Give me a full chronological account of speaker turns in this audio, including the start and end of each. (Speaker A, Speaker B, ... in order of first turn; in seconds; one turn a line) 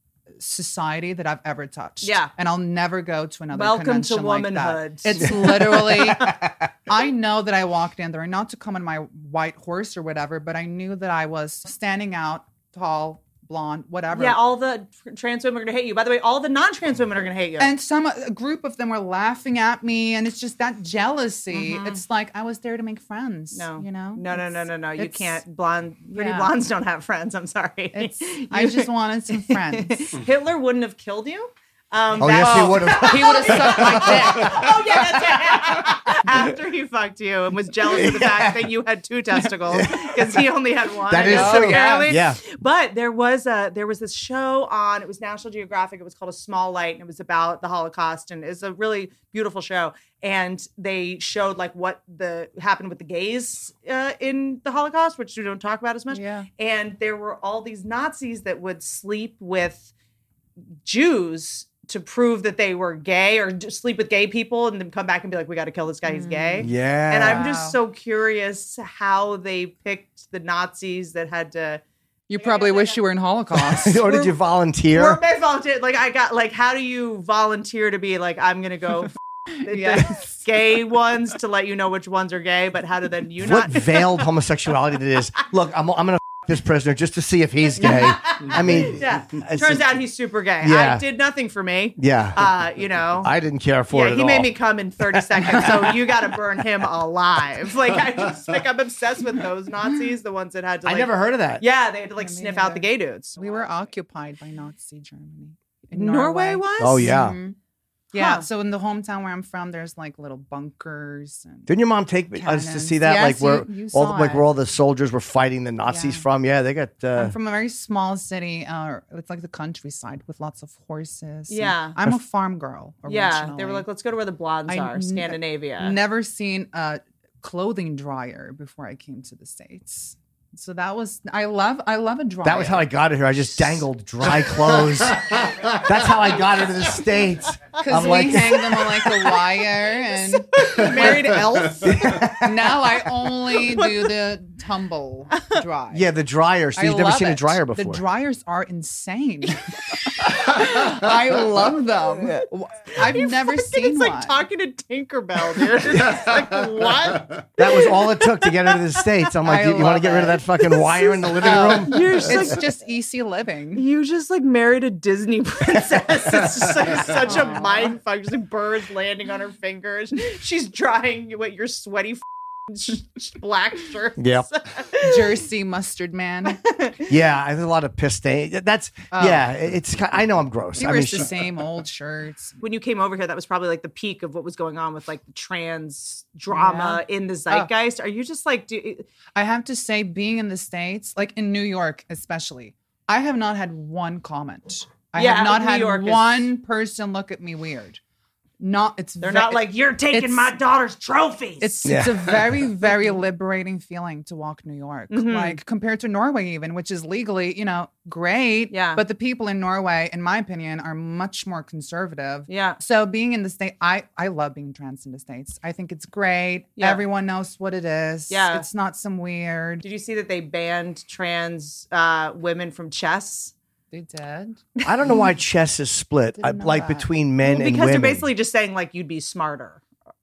Speaker A: 0.4-14.4
Speaker B: 2.0-2.3
Speaker B: 3.5-6.3
Speaker B: 14.1-17.7
Speaker A: 17.6-25.4
Speaker B: 21.5-22.0
Speaker B: 23.5-59.9
Speaker A: 26.1-26.5
Speaker A: 27.9-30.1
Speaker C: 32.2-36.4
Speaker A: 32.2-34.8
Speaker C: 37.9-38.7
Speaker C: 39.7-40.4
Speaker C: 41.1-42.4
Speaker A: 41.2-42.1
Speaker A: 56.1-56.5
Speaker B: 60.8-71.8
Speaker A: 66.0-67.8
Speaker C: 66.6-67.5
Speaker A: 72.3-74.1
Speaker B: 72.4-73.0
Speaker C: 73.5-75.2
Speaker B: 74.9-84.3
Speaker A: 79.7-80.2
Speaker C: 83.4-90.0
Speaker B: 87.8-93.3
Speaker C: 90.6-91.0
Speaker C: 92.0-92.5
Speaker C: 93.2-94.5
Speaker B: 93.9-103.6
Speaker C: 100.8-101.6
Speaker A: 102.2-107.6
Speaker B: 105.9-107.1
Speaker C: 106.8-107.4
Speaker A: 108.1-111.7
Speaker B: 108.1-108.5
Speaker C: 111.7-117.3
Speaker A: 112.3-114.5
Speaker A: 115.9-116.2
Speaker A: 117.2-123.9
Speaker B: 121.5-122.0
Speaker B: 123.1-126.0
Speaker A: 124.7-132.9
Speaker C: 132.4-139.0
Speaker A: 137.8-146.1
Speaker B: 140.2-142.2
Speaker C: 141.8-142.8
Speaker B: 143.6-144.1
Speaker C: 145.9-148.0
Speaker A: 146.8-154.4
Speaker B: 153.0-158.8
Speaker C: 157.6-162.6
Speaker A: 159.4-163.8
Speaker B: 160.7-162.6
Speaker B: 163.8-175.4
Speaker A: 167.1-167.9
Speaker C: 174.2-174.5
Speaker A: 175.0-176.6
Speaker B: 176.5-177.1
Speaker C: 177.1-181.4
Speaker A: 179.1-179.5
Speaker A: 180.8-182.6
Speaker B: 182.6-189.1
Speaker A: 186.5-187.7
Speaker A: 189.3-198.0
Speaker B: 195.2-196.5
Speaker A: 198.6-200.6
Speaker B: 199.2-201.9
Speaker A: 201.6-219.8
Speaker C: 201.8-202.5
Speaker B: 205.1-205.6
Speaker B: 208.7-209.0
Speaker B: 212.5-212.8
Speaker B: 218.3-218.7
Speaker B: 219.8-223.5
Speaker A: 223.9-225.2
Speaker C: 224.8-228.3
Speaker A: 226.4-227.1
Speaker B: 227.4-229.8